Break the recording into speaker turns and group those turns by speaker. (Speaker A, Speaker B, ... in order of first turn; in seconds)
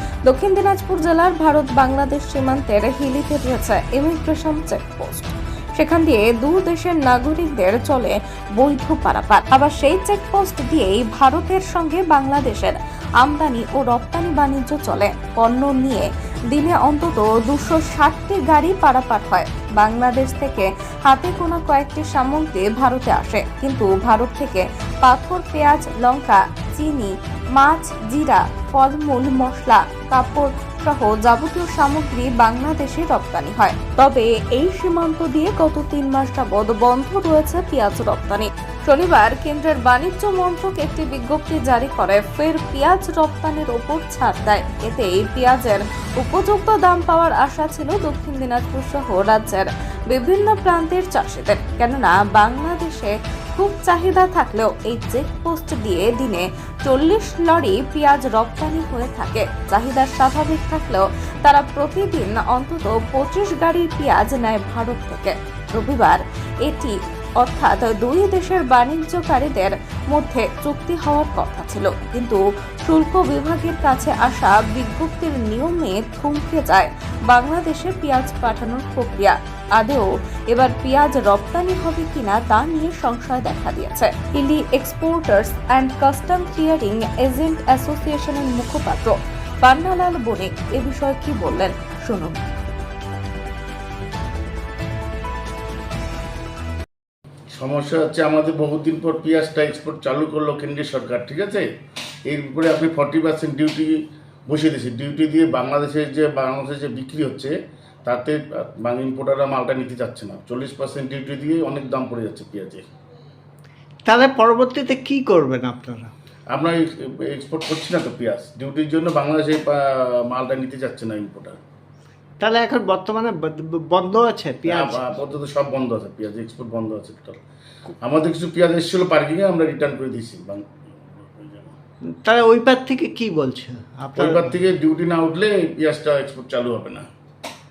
Speaker A: 0.3-92.4
Speaker B: 97.5-101.7, 102.3-103.9, 104.5-107.5, 108.0-112.8, 116.5-121.6, 124.7-127.4, 128.0-131.8, 134.2-137.1
Speaker C: 114.1-116.1, 122.4-125.0, 132.1-134.6